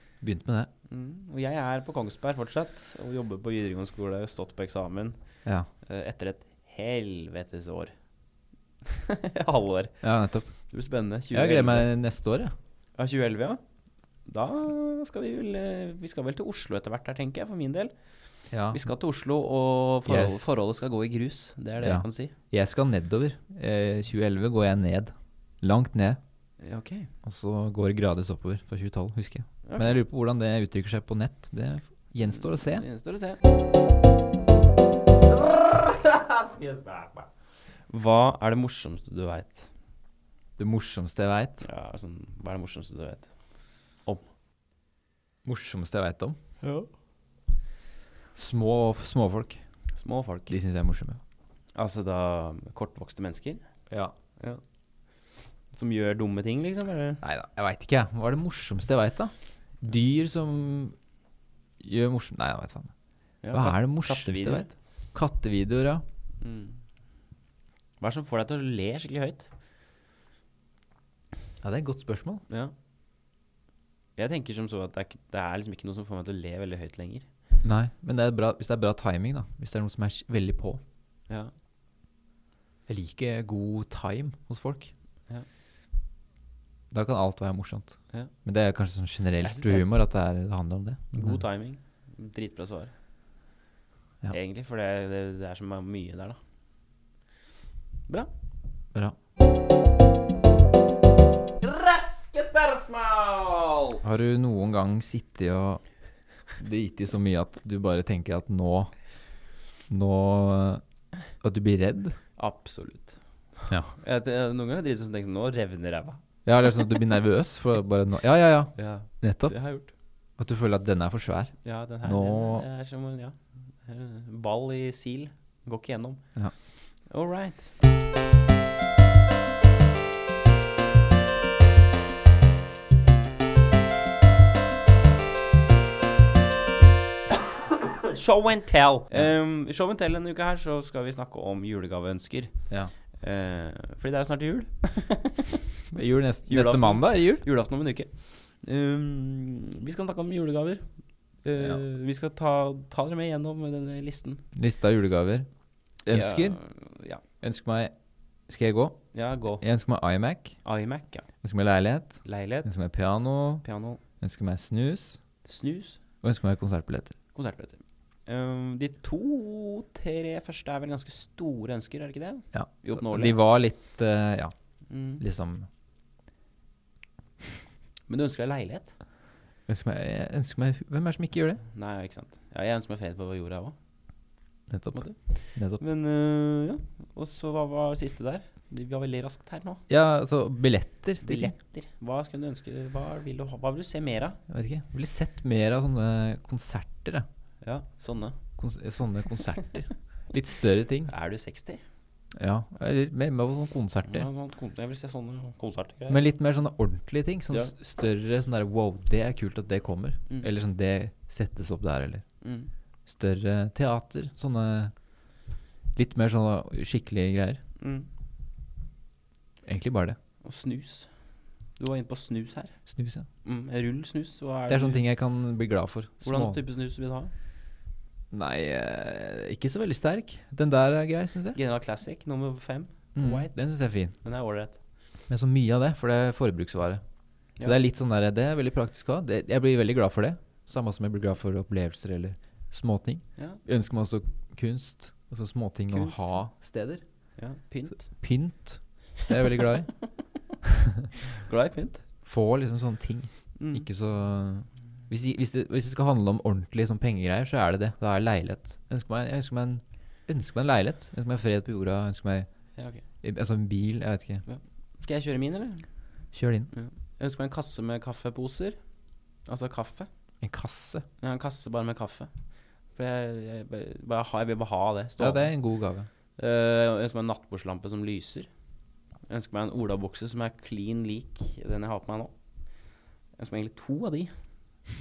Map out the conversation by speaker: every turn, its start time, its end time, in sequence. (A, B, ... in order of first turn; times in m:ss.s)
0:00.2-0:00.7 A
0:00.9-0:05.2 B
0:05.8-0:07.9 B
0:08.8-0:10.0 B
0:10.0-0:10.5 A
0:10.6-0:11.9 B
0:11.3-0:12.5 A
0:13.0-0:13.6 B
0:14.2-0:17.9 B
0:18.5-0:18.8 A
0:18.7-0:22.3 B
0:20.0-0:20.6 A
0:21.8-0:26.2 A
0:26.6-0:27.1 B
0:27.2-0:32.8 A
0:29.6-0:30.0 B
0:32.3-0:33.4 B
0:35.3-0:37.3 B
0:37.9-0:39.7 B
0:40.6-0:41.6 A
0:41.6-0:43.3 B
0:45.4-0:46.4 A
0:46.6-0:46.9 B
0:48.3-0:49.6 A
0:49.9-0:50.6 B
0:50.5-0:51.2 A
0:51.8-0:53.6 B
0:55.7-0:57.2 B
0:57.2-1:00.9 A
1:01.8-1:02.9 A
1:03.4-1:04.7 B
1:03.5-1:06.0 A
1:06.4-1:06.8 B
1:08.0-1:09.5 B
1:11.6-1:12.4 A
1:14.2-1:17.2 B
1:17.6-1:20.8 A
1:22.9-1:24.9 A
1:26.9-1:31.4 A
1:29.4-1:29.9 B
1:31.1-1:32.9 B
1:34.3-1:36.4 B
1:41.6-1:44.0 B
1:44.0-1:45.8 A
1:46.5-1:48.9 A
1:49.9-1:50.8 A
1:51.3-1:52.2 A
1:52.4-1:56.2 B
1:53.7-1:53.9 A
1:56.4-1:59.6 A
1:58.8-1:59.9 B
2:00.4-2:02.6 A
2:01.6-2:06.2 B
2:07.0-2:07.7 B
2:17.8-2:22.6 B
2:23.2-2:25.6 B
2:25.9-2:27.4 A
2:26.5-2:30.9 B
2:31.4-2:34.4 B
2:34.5-2:35.5 A
2:36.0-2:36.6 A
2:36.1-2:37.2 B
2:37.4-2:37.9 A
2:38.5-2:39.0 A
2:39.1-2:39.6 B
2:39.6-2:40.6 A
2:40.6-2:41.3 B
2:41.4-2:43.6 A
2:42.2-2:42.7 B
2:43.6-2:44.0 B
2:44.2-2:45.2 A
2:45.4-2:46.0 B
2:46.2-2:47.1 A
2:47.3-2:53.4 B
2:52.5-2:54.5 A
2:54.9-2:55.2 B
2:55.2-2:55.7 A
2:58.1-2:59.0 B
2:59.7-3:01.6 A
3:01.7-3:03.7 B
3:04.7-3:05.8 A
3:04.9-3:09.8 B
3:09.9-3:11.5 A
3:11.2-3:14.4 B
3:14.5-3:17.2 A
3:17.6-3:18.4 B
3:18.6-3:21.1 A
3:21.1-3:21.8 B
3:22.3-3:24.3 A
3:24.0-3:26.2 B
3:26.1-3:32.2 A
3:32.4-3:32.7 B
3:33.1-3:34.9 A
3:35.9-3:37.6 A
3:37.8-3:38.1 B
3:39.6-3:40.2 A
3:40.4-3:41.1 B
3:41.8-3:42.8 B
3:42.9-3:43.2 A
3:43.4-3:45.0 B
3:44.7-3:46.6 A
3:46.2-3:47.3 B
3:48.3-3:51.6 A
3:51.5-3:53.6 B
3:53.1-3:54.1 A
3:54.2-3:54.8 B
3:55.3-3:57.0 A
3:57.6-4:07.0 A
4:05.9-4:06.3 B
4:07.4-4:08.2 B
4:08.1-4:10.0 A
4:10.6-4:11.1 A
4:11.3-4:12.0 B
4:12.2-4:22.5 A
4:13.6-4:13.9 B
4:22.8-4:23.0 B
4:23.2-4:24.4 A
4:24.4-4:25.9 B
4:26.3-4:26.7 A
4:26.7-4:28.8 B
4:29.4-4:30.1 B
4:30.4-4:31.0 A
4:31.2-4:32.3 B
4:32.9-4:35.5 B
4:35.2-4:36.1 A
4:36.4-4:38.5 B
4:39.3-4:42.3 B
4:43.4-4:44.3 B